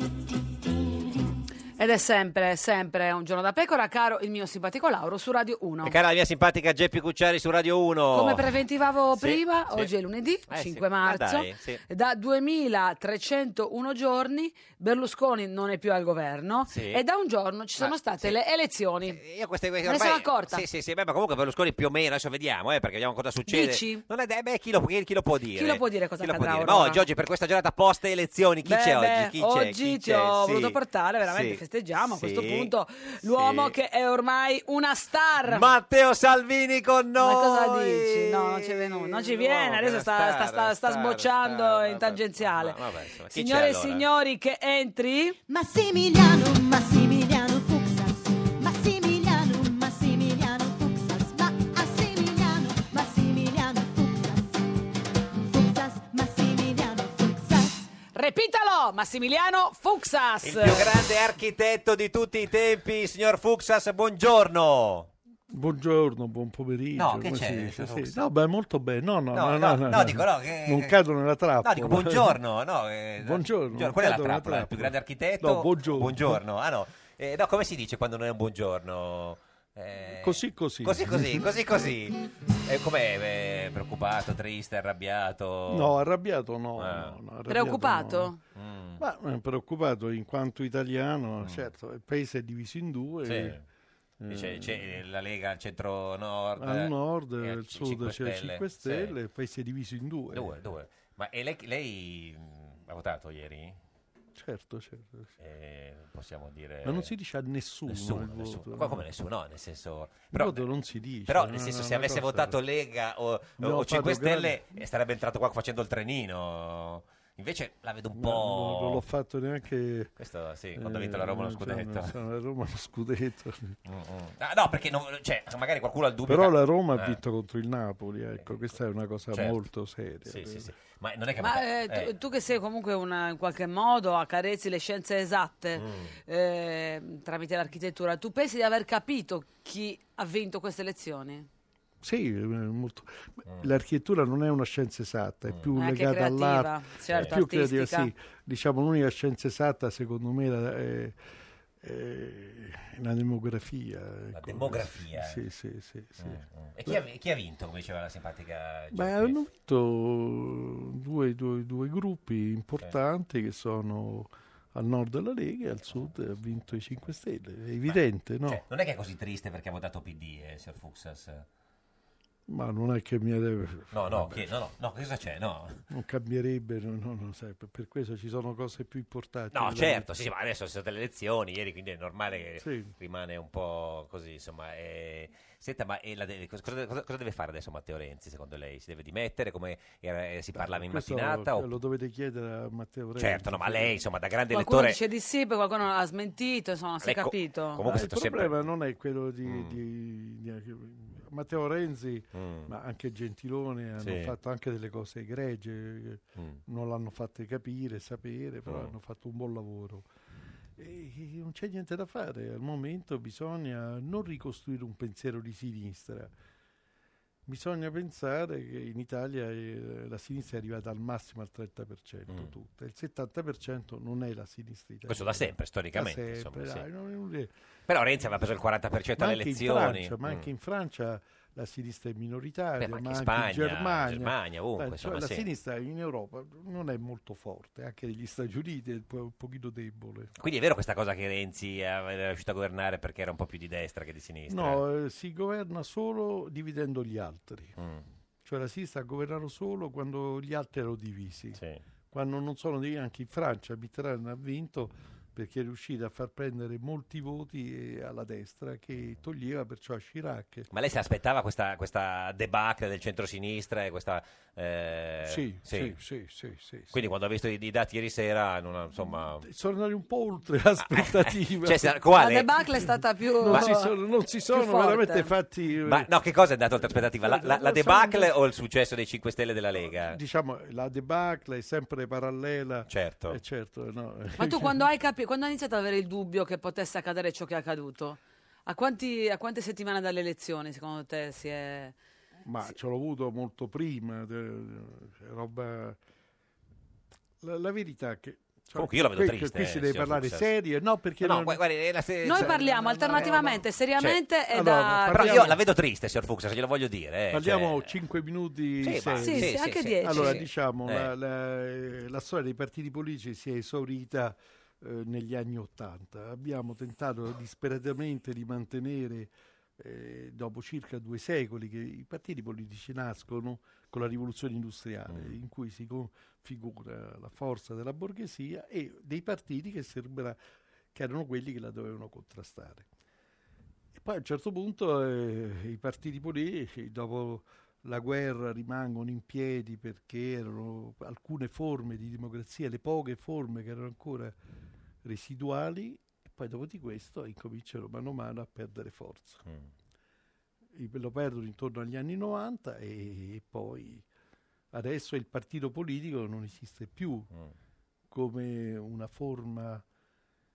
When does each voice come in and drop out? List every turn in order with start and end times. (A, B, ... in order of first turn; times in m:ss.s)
0:01.8-0:06.0 A
0:05.8-0:08.6 B
0:08.1-0:19.2 A
0:09.1-0:09.9 B
0:10.5-0:11.8 B
0:16.7-0:17.0 B
0:17.8-0:18.4 B
0:19.0-0:32.7 B
0:19.9-0:20.6 A
0:23.5-0:24.0 A
0:25.5-0:27.0 A
0:28.6-0:35.7 A
0:33.2-0:33.7 B
0:35.4-0:44.0 B
0:37.2-0:42.8 A
0:43.3-0:45.4 A
0:45.5-0:54.7 C
0:55.4-0:57.9 C
0:58.1-1:00.9 A
1:00.4-1:05.1 B
1:05.5-1:12.4 D
1:07.0-1:08.2 B
1:09.3-1:11.0 B
1:11.6-1:26.0 B
1:13.2-1:16.4 D
1:20.2-1:21.6 D
1:25.7-1:28.3 D
1:26.8-1:27.1 B
1:27.5-1:28.4 A
1:28.5-1:29.0 B
1:29.0-1:33.6 D
1:33.2-1:33.6 B
1:34.2-1:35.0 D
1:34.3-1:39.1 B
1:36.6-1:40.5 D
1:40.3-1:43.8 B
1:44.3-1:45.3 D
1:45.4-1:47.1 B
1:46.8-1:49.0 D
1:47.9-1:50.6 B
1:50.3-1:52.6 D
1:51.2-1:59.0 B
1:53.6-1:54.6 D
1:58.1-2:00.1 D
2:00.2-2:02.1 B
2:00.8-2:03.8 D
2:03.8-2:07.2 B
2:06.3-2:10.7 D
2:10.2-2:12.1 B
2:11.4-2:21.5 A
2:15.8-2:16.1 B
2:22.0-2:31.2 D
2:25.8-2:28.1 A
2:31.8-2:37.0 D
2:34.3-2:35.4 B
2:36.2-2:39.4 B
2:38.9-2:48.6 D
2:47.8-2:51.4 B
2:52.5-2:54.5 D
2:53.9-2:55.8 B
2:55.9-3:00.1 D
2:59.5-3:11.7 B
3:02.6-3:02.9 D
3:10.5-3:14.0 D
3:13.2-3:15.0 B
3:14.5-3:17.8 A
3:17.0-3:18.6 B
3:17.8-3:30.1 D
3:19.5-3:19.8 B
3:22.3-3:22.7 B
3:24.0-3:24.3 B
3:28.7-3:28.9 B
3:30.8-3:36.3 D
3:37.5-3:47.5 D
3:45.1-3:46.8 B
3:47.9-3:50.5 B
3:49.2-4:00.3 D
3:52.8-3:55.4 B
4:00.4-4:04.8 B
4:04.5-4:07.8 D
4:07.8-4:08.0 B
4:08.4-4:20.7 D
4:20.7-4:26.0 B
4:25.2-4:27.0 D
4:26.9-4:29.5 B
4:29.4-4:32.0 D
4:31.0-4:32.6 B
4:32.2-4:33.9 A
4:33.4-4:36.1 D
4:34.5-4:35.3 A
4:35.8-4:40.2 B
4:36.8-4:38.3 D
4:40.0-4:44.8 D
4:42.9-4:43.4 B
4:44.4-4:52.0 A
4:52.4-4:56.0 D
4:57.4-5:01.6 D
4:58.8-5:00.5 B
5:01.2-5:04.2 B
5:02.2-5:05.4 A
5:02.3-5:03.6 D
5:04.5-5:05.6 D
5:05.1-5:07.9 B
5:07.3-5:30.4 D
5:08.8-5:11.1 B
5:09.2-5:10.4 A
5:25.1-5:25.3 B
5:30.9-5:32.9 D
5:34.0-5:44.4 D
5:45.0-5:49.4 D
5:50.8-5:54.0 D
5:54.7-5:57.3 D
5:58.1-5:59.8 D